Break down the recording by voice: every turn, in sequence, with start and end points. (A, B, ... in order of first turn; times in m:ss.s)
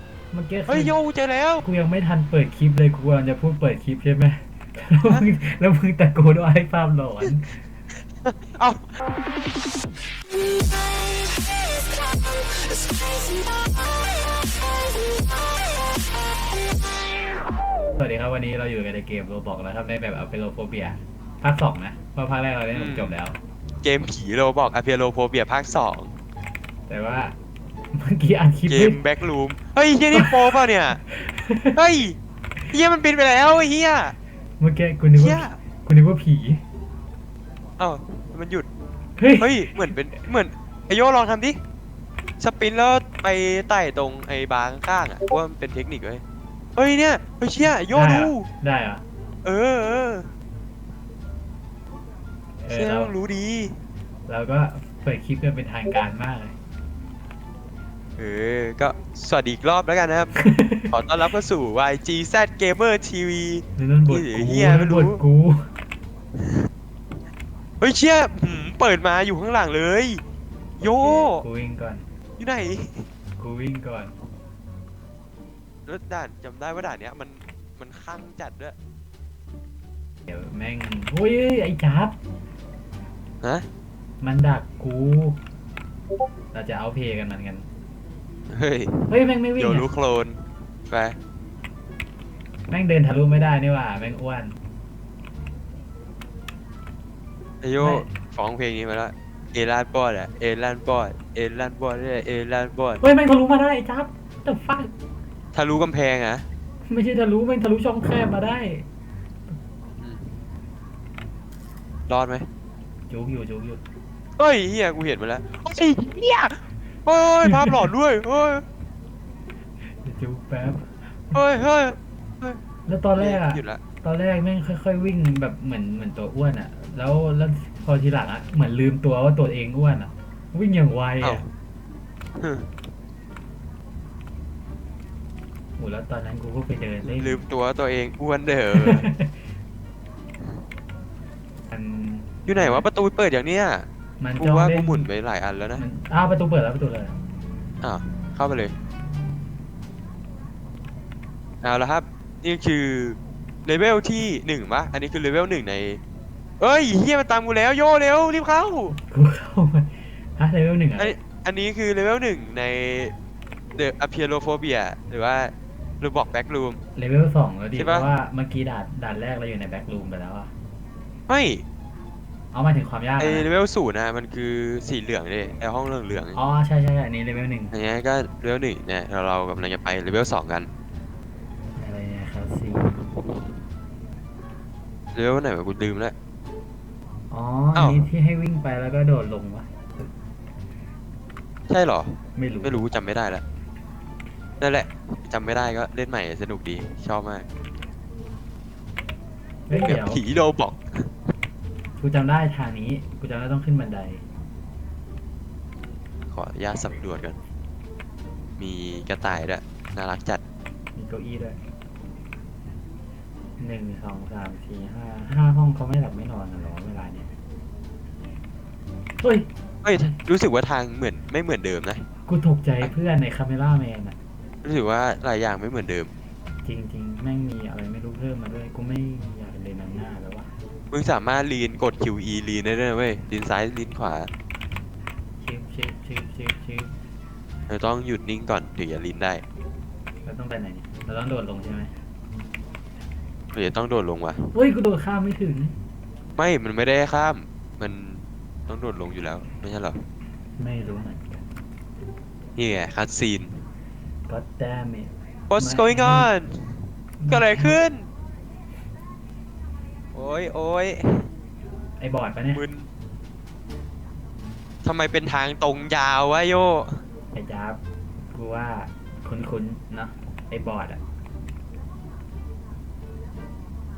0:00.3-0:00.9 A
0:00.7-0:01.6 B
0:01.6-0:07.6 A
0:08.2-0:08.9 B
0:18.0-0:23.4 A
0:22.7-0:23.2 B
0:23.8-0:26.1 B
0:26.9-0:27.4 A
0:27.9-0:29.0 A
0:28.7-0:31.0 B
0:30.1-0:31.8 A
0:31.8-0:32.2 B
0:32.7-0:34.2 B
0:34.6-0:36.6 A
0:35.2-0:35.6 B
0:37.8-0:38.7 B
0:39.2-0:39.8 A
0:39.4-0:41.6 B
0:42.4-0:46.2 B
0:46.8-0:48.5 B
0:47.9-0:49.0 A
0:49.4-0:50.3 B
0:52.6-0:53.1 A
0:52.7-0:53.8 B
0:54.3-0:56.6 A
0:58.2-1:00.3 B
1:00.4-1:00.9 A
1:00.9-1:05.2 B
1:03.8-1:05.7 A
1:07.8-1:10.2 B
1:10.8-1:11.4 B
1:10.8-1:12.1 A
1:12.4-1:13.1 B
1:13.4-1:14.2 A
1:15.9-1:18.8 B
1:20.3-1:22.2 A
1:24.2-1:25.4 A
1:26.5-1:27.7 A
1:28.5-1:31.2 B
1:29.1-1:29.9 A
1:32.7-1:34.6 A
1:37.6-1:43.0 B
1:37.8-1:38.1 A
1:43.0-1:44.9 A
1:45.5-1:46.4 B
1:46.9-1:48.9 A
1:50.0-1:50.3 B
1:52.1-1:52.5 B
1:53.1-1:53.8 A
1:54.4-1:58.6 B
1:57.5-1:57.7 A
1:59.8-2:01.4 A
2:01.3-2:02.6 B
2:02.9-2:11.4 A
2:03.2-2:03.8 B
2:12.4-2:12.7 B
2:15.8-2:17.4 A
2:17.0-2:19.0 B
2:18.7-2:19.3 A
2:21.7-2:22.9 A
2:22.5-2:23.9 B
2:24.2-2:25.1 A
2:24.4-2:25.8 B
2:25.8-2:27.2 A
2:27.8-2:28.7 B
2:31.6-2:36.0 B
2:36.6-2:38.9 B
2:38.9-2:41.2 A
2:41.0-2:43.1 B
2:43.8-2:46.8 B
2:47.0-2:50.5 A
2:47.8-2:48.1 B
2:51.3-2:51.6 B
2:52.5-2:53.5 A
2:53.2-2:56.4 B
2:56.3-2:57.7 A
2:57.7-3:00.7 B
3:01.8-3:03.0 A
3:05.2-3:06.1 B
3:07.3-3:10.1 A
3:07.8-3:08.0 B
3:11.7-3:13.4 B
3:12.4-3:12.9 A
3:14.6-3:17.5 B
3:19.7-3:20.2 A
3:19.8-3:20.8 B
3:22.0-3:24.2 A
3:26.3-3:27.4 B
3:28.6-3:30.4 B
3:31.0-3:31.6 A
3:33.6-3:37.3 A
3:39.2-3:39.5 A
3:39.8-3:42.0 B
3:42.3-3:44.2 A
3:44.6-3:46.1 B
3:46.6-3:50.5 A
3:50.9-3:54.3 B
3:55.4-3:57.0 A
3:57.7-3:59.4 B
4:00.3-4:02.0 A
4:03.6-4:04.5 B
4:04.5-4:05.8 A
4:06.4-4:10.0 B
4:10.6-4:11.4 A
4:12.6-4:13.6 B
4:14.3-4:16.3 A
4:15.5-4:16.6 B
4:17.2-4:17.8 A
4:17.3-4:18.1 B
4:20.1-4:21.3 B
4:22.0-4:22.6 A
4:22.5-4:22.9 B
4:24.8-4:27.0 B
4:27.3-4:27.8 A
4:28.3-4:31.0 A